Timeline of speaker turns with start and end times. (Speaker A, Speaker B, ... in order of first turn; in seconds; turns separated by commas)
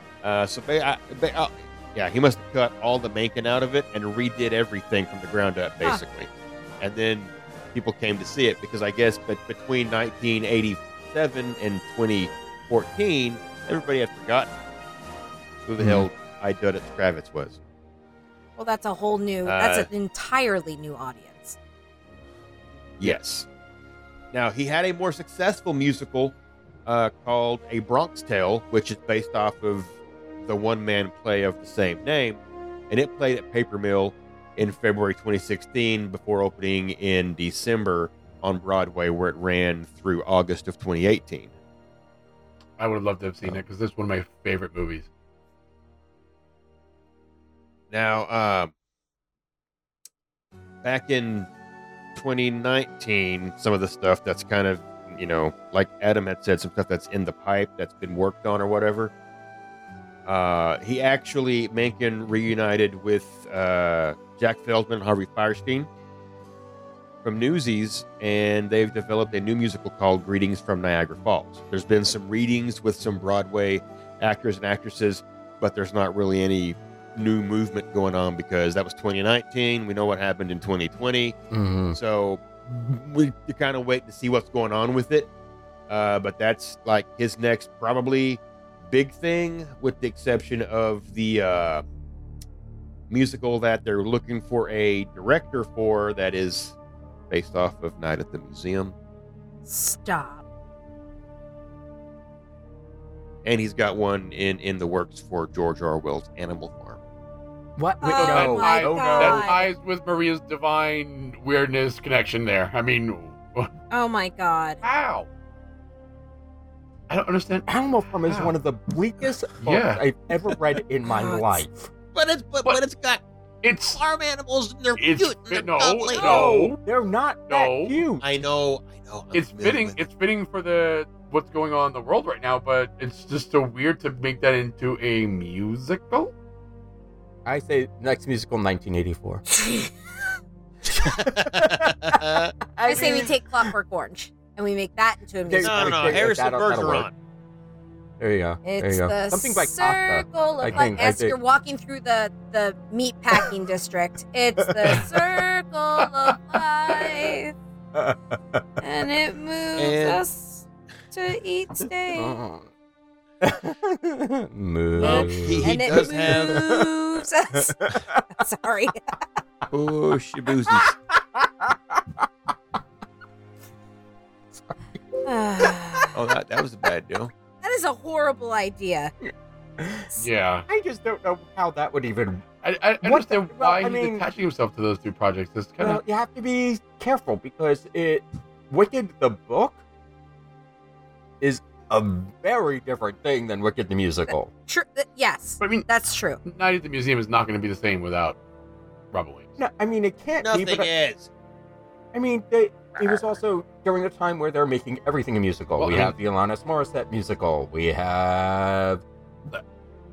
Speaker A: 0.2-6.3, Speaker A: 6.8-14.5, Speaker A: 15.7-17.6, Speaker B: 15.8-16.1, Speaker C: 18.6-21.6, Speaker A: 19.4-19.9, Speaker A: 23.0-23.5, Speaker A: 24.3-41.5, Speaker D: 42.8-45.1, Speaker A: 47.9-48.7, Speaker A: 50.8-51.5, Speaker A: 52.1-59.1, Speaker A: 60.2-65.9, Speaker A: 67.2-81.4, Speaker B: 81.5-82.0, Speaker A: 81.9-85.3, Speaker A: 85.9-91.8, Speaker A: 93.1-96.8, Speaker A: 97.3-99.0, Speaker C: 99.7-100.4, Speaker A: 103.4-107.0, Speaker B: 107.8-109.6, Speaker C: 108.0-109.7, Speaker D: 108.2-113.7, Speaker C: 113.9-114.8, Speaker D: 114.8-115.3, Speaker D: 117.1-117.7, Speaker B: 117.7-121.9, Speaker D: 118.2-118.5, Speaker D: 119.6-120.0, Speaker C: 121.1-121.6, Speaker A: 122.1-123.2, Speaker D: 123.6-124.0, Speaker A: 123.9-126.4, Speaker D: 125.0-126.8, Speaker B: 126.2-128.3, Speaker D: 127.5-128.0, Speaker A: 128.2-130.0, Speaker D: 129.3-136.3, Speaker B: 137.4-139.4, Speaker C: 139.6-139.9, Speaker B: 140.8-143.5, Speaker A: 141.1-142.5, Speaker C: 142.8-146.2, Speaker B: 145.4-147.1, Speaker A: 145.6-147.1, Speaker B: 148.2-151.3, Speaker C: 148.6-157.5, Speaker B: 154.6-155.4, Speaker B: 157.9-158.8, Speaker C: 158.8-162.3, Speaker A: 159.8-160.2, Speaker B: 162.1-162.7, Speaker B: 163.4-166.8, Speaker A: 165.0-166.6, Speaker C: 165.0-169.0, Speaker B: 167.5-168.2, Speaker A: 169.7-170.9, Speaker B: 170.7-172.3, Speaker C: 175.2-176.1, Speaker A: 176.1-177.3, Speaker C: 177.6-179.1, Speaker B: 179.2-182.4, Speaker D: 180.2-180.7, Speaker D: 182.6-186.0, Speaker B: 183.0-184.2, Speaker B: 185.8-189.8, Speaker B: 191.4-194.5, Speaker C: 194.7-196.4, Speaker D: 195.6-195.8, Speaker D: 196.4-198.4, Speaker D: 199.1-199.5, Speaker B: 199.6-200.9, Speaker A: 200.4-201.3, Speaker B: 202.1-209.0, Speaker A: 203.0-203.3, Speaker D: 205.8-206.2